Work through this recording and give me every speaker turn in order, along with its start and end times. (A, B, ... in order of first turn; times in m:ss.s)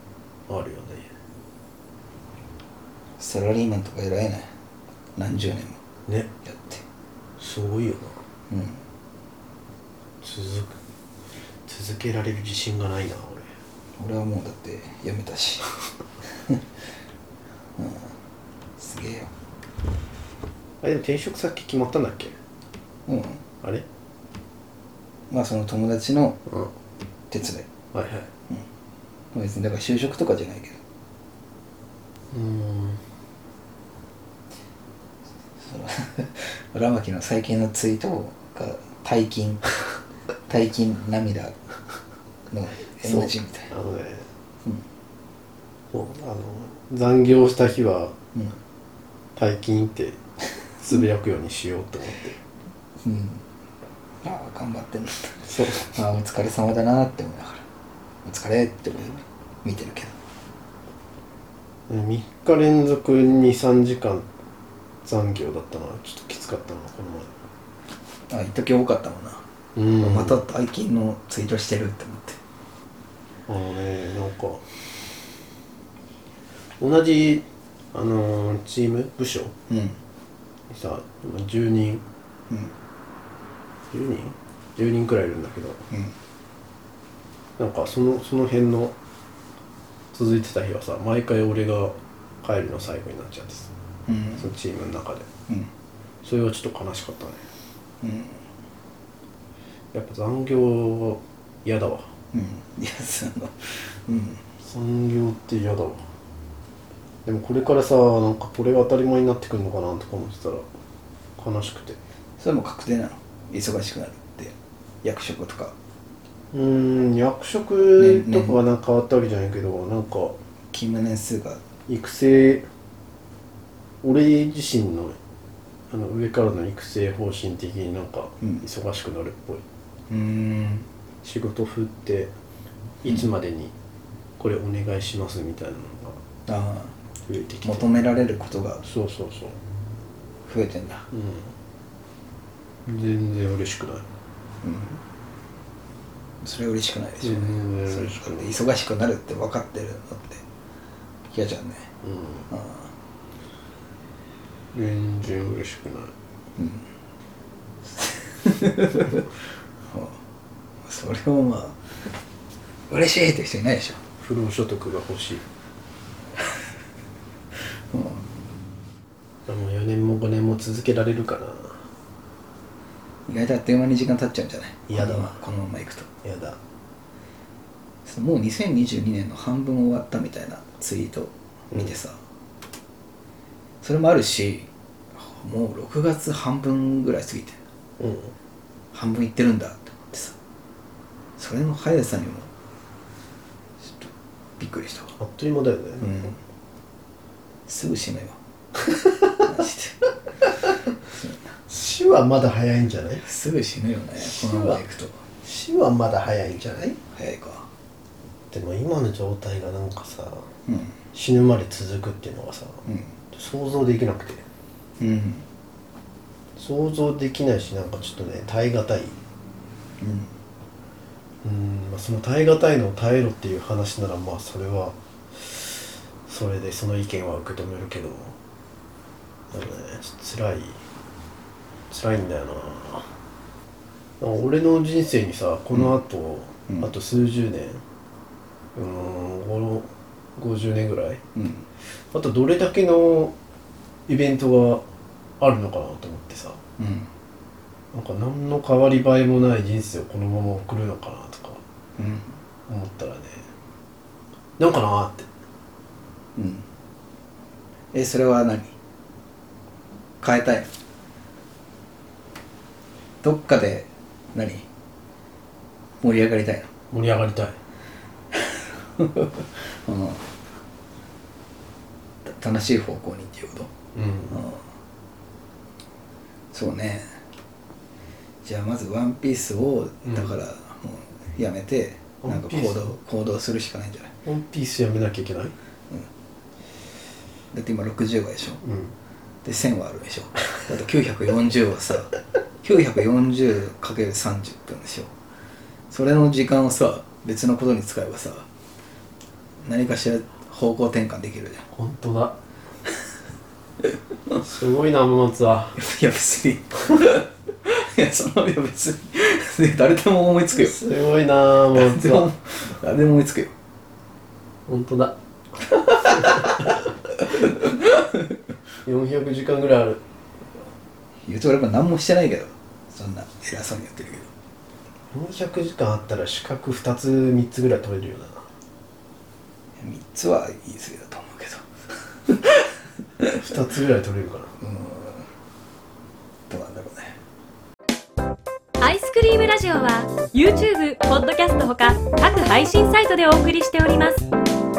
0:00.5-0:01.1 A
0:03.2-0:04.5 B
0:05.2-0:05.8 B
0:06.4-0:06.8 B
0:07.4-0:08.2 A
0:08.5-0:08.8 B
0:10.2-0:10.8 A
0:11.6-0:13.4 A
0:14.0-0:15.6 B
0:17.8-0:18.1 B
0:18.8-0:19.3 B
0:20.8-0:22.4 A
0:23.1-0:23.4 B
0:25.3-0:26.4 B
0:27.3-0:27.6 B
0:27.9-0:28.3 A
0:29.3-0:30.8 B
0:32.3-0:33.0 A
0:35.6-0:39.6 B
0:40.5-0:41.5 B
0:42.5-0:43.7 B
0:43.0-0:44.3 A
0:45.9-0:48.1 A
0:49.4-0:50.2 A
0:50.8-0:52.4 A
0:53.0-0:53.4 B
0:54.2-0:57.6 B
0:55.4-0:55.9 A
0:58.2-1:00.1 B
1:01.9-1:04.3 A
1:05.0-1:07.3 A
1:08.3-1:09.4 B
1:09.7-1:10.4 A
1:10.0-1:12.4 B
1:13.5-1:14.6 A
1:16.8-1:19.5 A
1:19.7-1:20.0 B
1:20.7-1:22.0 A
1:23.9-1:25.8 A
1:27.6-1:29.0 A
1:30.1-1:33.7 A
1:34.1-1:34.5 B
1:34.4-1:35.2 A
1:36.2-1:37.4 A
1:38.0-1:38.4 B
1:39.9-1:42.1 A
1:42.3-1:44.4 B
1:44.6-1:46.0 A
1:47.2-1:50.6 A
1:51.4-1:52.0 A
1:52.4-1:55.7 B
1:56.5-2:00.4 A
1:58.0-1:58.6 B
2:00.7-2:01.6 B
2:01.9-2:02.6 A
2:04.0-2:05.2 A
2:05.9-2:09.6 A
2:10.1-2:10.9 B
2:11.2-2:12.3 A
2:13.0-2:13.7 A
2:14.4-2:16.2 A
2:16.5-2:17.0 B
2:17.2-2:17.9 A
2:17.6-2:18.8 B
2:18.8-2:19.6 A
2:20.4-2:21.0 B
2:21.1-2:21.5 A
2:22.8-2:24.0 A
2:24.6-2:25.0 B
2:26.4-2:30.4 B
2:27.2-2:28.6 A
2:31.3-2:31.9 B
2:32.0-2:32.5 A
2:32.5-2:32.9 B
2:34.7-2:36.1 A
2:36.6-2:36.8 B
2:37.9-2:39.2 B
2:39.9-2:40.2 B
2:40.8-2:41.8 B
2:42.9-2:44.0 B
2:44.2-2:45.4 A
2:47.9-2:48.2 B
2:49.5-2:51.8 A
2:53.3-2:56.1 B
2:54.9-2:55.4 A
2:56.2-2:56.6 A
2:58.0-3:02.2 B
3:03.8-3:07.6 B
3:08.0-3:08.3 A
3:08.9-3:10.4 B
3:11.4-3:12.5 B
3:14.6-3:15.1 B
3:15.2-3:16.3 A
3:16.0-3:16.4 B
3:17.7-3:18.4 B
3:18.9-3:20.7 A
3:21.7-3:23.2 A
3:23.2-3:25.2 B
3:24.2-3:24.8 A
3:25.4-3:27.0 A
3:27.1-3:27.7 B
3:28.5-3:30.5 A
3:30.7-3:31.0 B
3:31.1-3:32.8 A
3:32.8-3:33.1 B
3:33.3-3:34.4 A
3:35.0-3:35.4 B
3:36.6-3:39.2 A
3:40.0-3:40.3 B
3:41.4-3:48.4 A
3:49.5-3:50.8 A
3:51.9-3:53.1 A
3:54.2-3:57.8 A
3:55.7-3:56.0 B
3:58.7-4:01.2 A
4:01.3-4:01.7 B
4:02.1-4:03.3 A
4:04.1-4:04.8 A
4:05.4-4:06.6 A
4:06.8-4:07.1 B
4:07.9-4:11.6 A
4:12.0-4:12.4 B
4:12.7-4:13.4 A
4:14.6-4:15.3 A
4:16.4-4:16.6 B
4:17.9-4:18.7 B
4:20.2-4:20.7 B
4:23.2-4:24.7 B
4:26.0-4:26.7 B
4:26.9-4:27.5 A
4:29.0-4:30.2 B
4:32.2-4:33.7 B
4:33.9-4:34.4 A
4:34.3-4:34.6 B
4:36.5-4:37.1 B
4:38.4-4:44.1 B
4:42.2-4:43.0 A
4:44.2-4:45.5 A
4:47.5-4:48.6 B
4:48.6-4:48.9 A
4:49.4-4:52.1 B
4:52.6-4:55.1 B
4:55.9-4:58.5 B
4:59.6-5:01.6 B
5:01.7-5:02.4 A
5:04.4-5:05.8 A
5:05.8-5:10.8 B
5:10.5-5:12.3 A
5:11.7-5:13.5 B
5:14.7-5:16.6 A
5:17.6-5:17.9 B
5:18.8-5:20.0 A
5:21.2-5:24.3 B
5:25.1-5:28.4 A
5:29.8-5:31.6 B
5:32.3-5:32.6 B
5:33.4-5:34.5 A
5:34.6-5:35.3 B
5:36.5-5:37.2 B
5:38.8-5:44.2 C